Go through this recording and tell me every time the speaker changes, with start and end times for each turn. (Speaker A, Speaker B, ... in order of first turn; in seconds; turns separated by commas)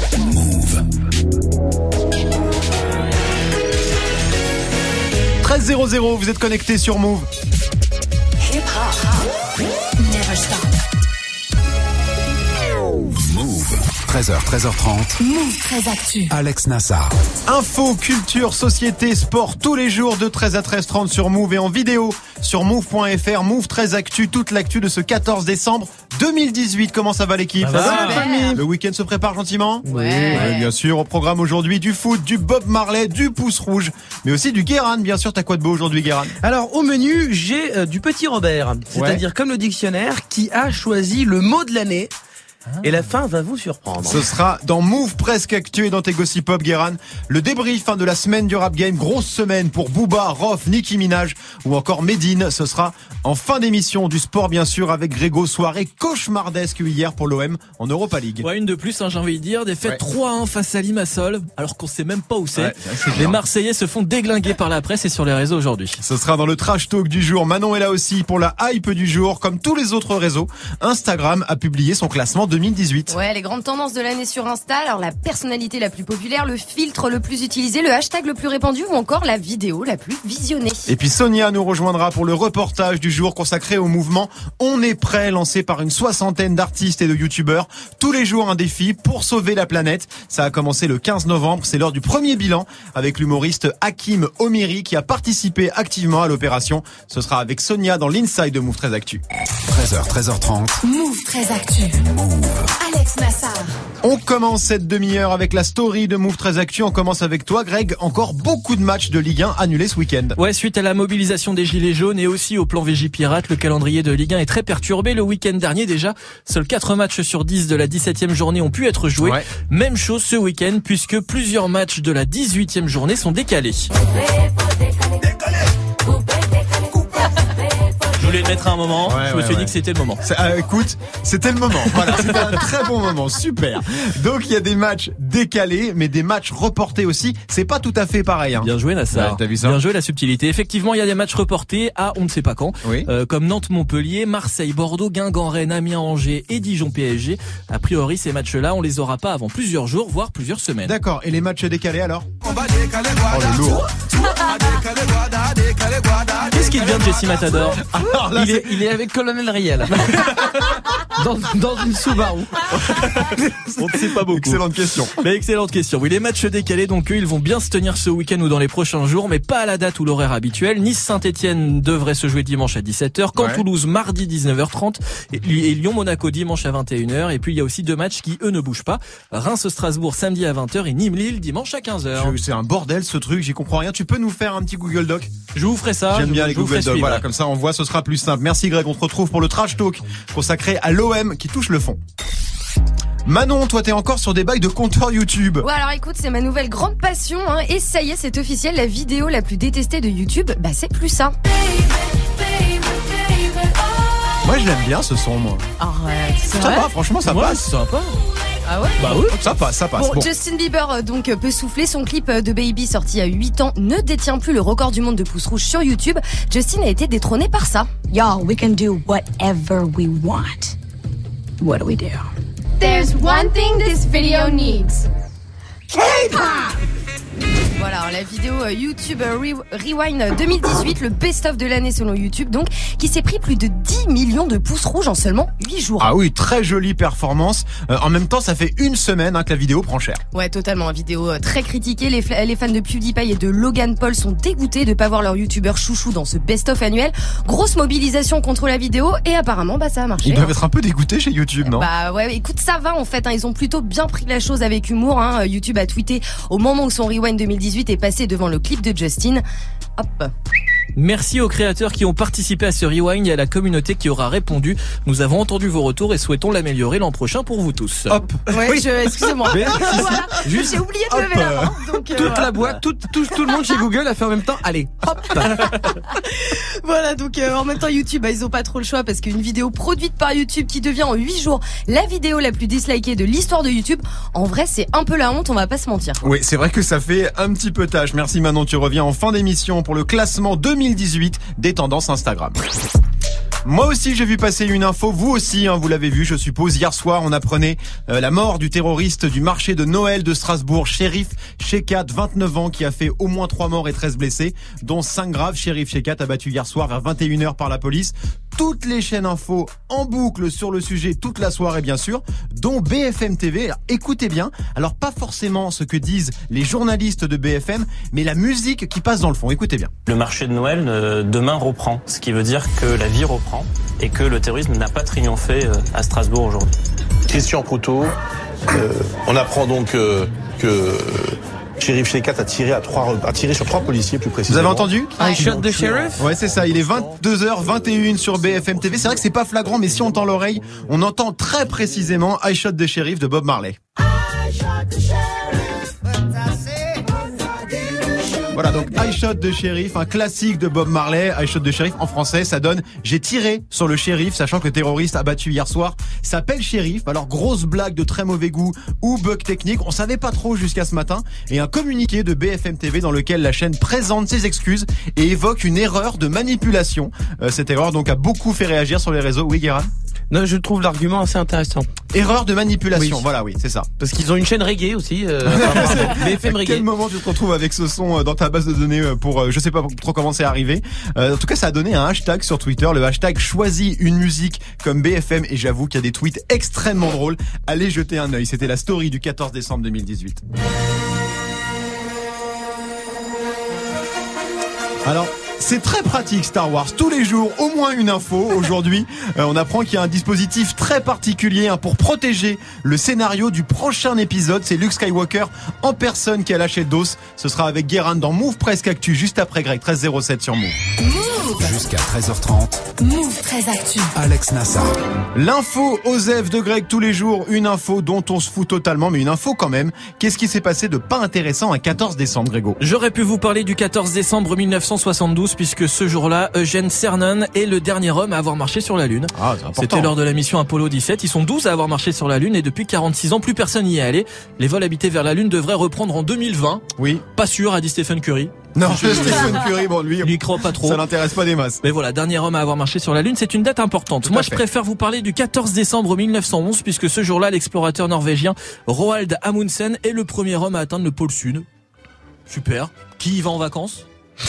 Speaker A: 0.2-0.7, Speaker B: 5.4-7.3, Speaker C: 8.4-9.2, Speaker C: 10.0-10.7, Speaker A: 13.2-15.2, Speaker C: 15.2-16.3, Speaker A: 16.3-17.1, Speaker B: 17.5-36.3, Speaker D: 27.6-28.3, Speaker E: 27.8-28.6, Speaker F: 29.8-30.4, Speaker E: 29.9-30.7, Speaker F: 36.4-42.1, Speaker B: 38.9-39.2, Speaker F: 42.8-44.3, Speaker B: 44.0-58.5, Speaker D: 58.4-66.0, Speaker B: 62.5-63.4, Speaker B: 66.0-73.1, Speaker E: 73.1-80.9, Speaker B: 80.9-99.2, Speaker A: 99.7-100.8, Speaker C: 100.8-102.0, Speaker A: 102.0-102.7, Speaker C: 102.8-103.7, Speaker B: 104.0-110.3, Speaker D: 110.4-123.9, Speaker B: 119.2-119.4, Speaker D: 128.1-130.2, Speaker B: 129.0-139.8, Speaker D: 138.6-150.9, Speaker B: 150.8-152.3, Speaker B: 153.2-153.8, Speaker D: 156.4-157.8, Speaker B: 157.8-158.8, Speaker F: 158.3-160.1, Speaker F: 161.2-162.7, Speaker D: 162.7-164.6, Speaker B: 164.2-165.1, Speaker D: 165.2-182.4, Speaker B: 173.3-173.6, Speaker B: 182.1-185.4, Speaker D: 185.5-187.2, Speaker B: 186.1-192.0, Speaker B: 193.2-195.7, Speaker E: 195.6-201.3, Speaker B: 204.4-205.6, Speaker E: 205.8-206.9, Speaker B: 206.5-207.7, Speaker D: 207.2-208.1, Speaker E: 208.7-209.4, Speaker D: 209.0-209.4, Speaker B: 209.3-210.3, Speaker E: 209.9-217.9, Speaker C: 218.1-220.7, Speaker C: 221.6-222.3, Speaker G: 222.8-225.0, Speaker E: 227.8-236.1, Speaker B: 236.0-240.2, Speaker E: 240.3-250.5, Speaker B: 250.2-251.9, Speaker E: 251.6-259.4, Speaker E: 260.0-260.3, Speaker D: 260.9-268.2, Speaker B: 268.1-268.3, Speaker E: 268.5-272.5, Speaker F: 268.5-268.8, Speaker B: 269.5-270.3, Speaker F: 269.5-270.8, Speaker B: 271.1-272.3, Speaker F: 272.1-275.8, Speaker E: 276.1-286.2, Speaker B: 286.2-292.6, Speaker B: 293.6-319.9, Speaker H: 320.1-326.7, Speaker I: 327.3-328.1, Speaker I: 328.7-334.9, Speaker B: 334.5-335.2, Speaker E: 335.2-335.5, Speaker F: 335.2-336.3, Speaker I: 335.4-336.1, Speaker B: 336.2-343.8, Speaker I: 336.6-337.1, Speaker B: 348.5-369.9, Speaker F: 370.3-371.9, Speaker B: 372.1-373.9, Speaker F: 372.9-373.2, Speaker F: 374.0-376.9, Speaker B: 375.5-390.4, Speaker B: 395.1-410.8, Speaker C: 411.0-411.8, Speaker A: 411.6-412.8, Speaker C: 413.0-414.1, Speaker A: 414.1-414.9, Speaker B: 415.3-422.8, Speaker D: 422.8-439.6, Speaker B: 429.3-430.1, Speaker B: 437.0-437.2, Speaker B: 438.7-441.8, Speaker D: 440.2-441.0, Speaker D: 441.8-451.6, Speaker B: 444.2-444.6, Speaker D: 452.5-454.1